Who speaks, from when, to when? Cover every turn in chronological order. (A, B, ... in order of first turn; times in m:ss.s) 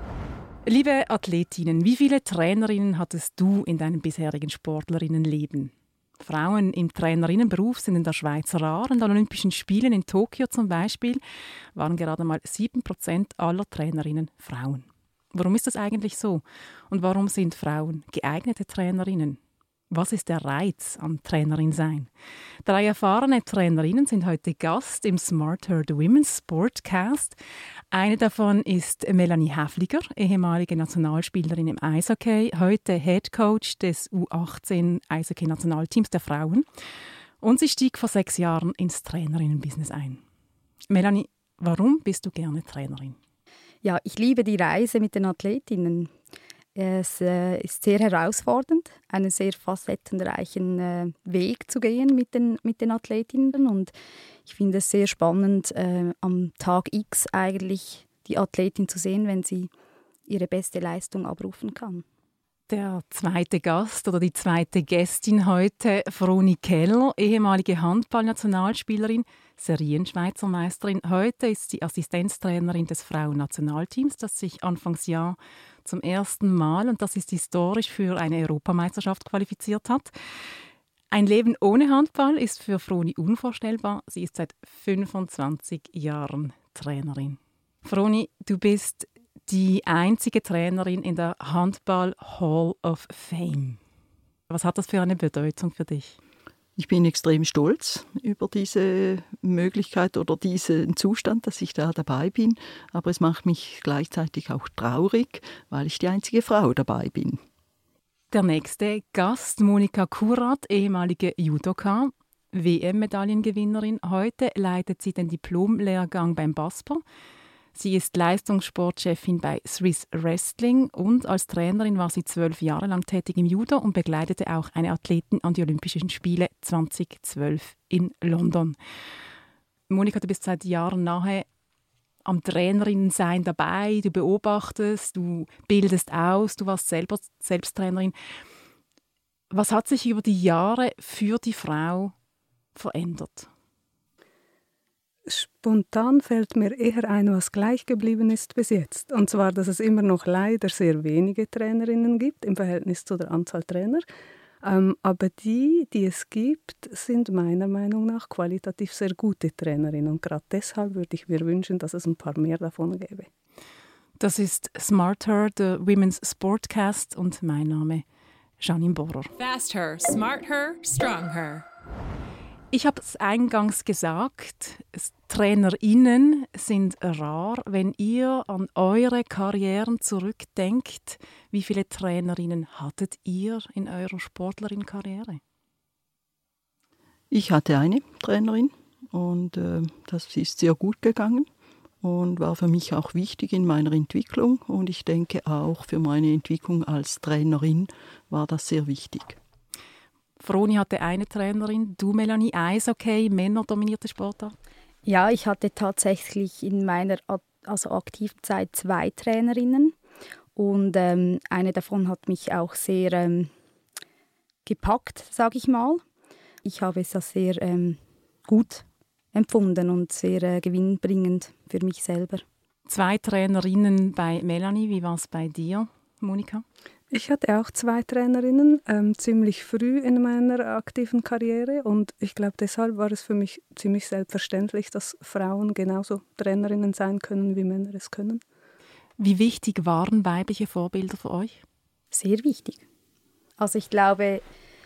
0:00.6-0:11.2 A
0:11.7-0:19.4 A
0:19.9-0:22.1 A
0:22.6-0:27.4 A
0:27.9-0:36.6 A
0:37.4-0:40.2 A
0:40.9-0:43.2 A
0:43.8-0:46.1 B
0:46.7-0:53.9 B
0:54.4-0:59.7 B
1:00.3-1:02.0 B
1:02.7-1:20.1 A
1:21.1-1:33.8 A
1:34.5-1:36.2 A
1:36.8-1:47.4 C
1:48.3-1:57.0 A
1:57.7-2:08.8 A
2:09.9-2:11.4 A
2:12.2-2:18.1 A
2:19.5-2:22.1 A
2:22.7-2:23.5 A
2:25.3-2:34.0 D
2:34.6-2:43.3 D
2:44.2-2:48.0 A
2:48.6-2:49.3 A
2:49.4-2:51.6 E
2:52.7-3:05.4 A
3:07.3-3:11.5 C
3:12.0-3:19.4 C
3:20.4-3:24.5 A
3:25.0-3:29.9 B
3:30.6-3:33.5 B
3:34.6-3:36.0 B
3:36.6-3:42.4 B
3:42.9-3:46.6 A
3:47.1-3:58.4 D
3:59.2-4:01.6 A
4:02.1-4:02.8 B
4:03.6-4:04.4 B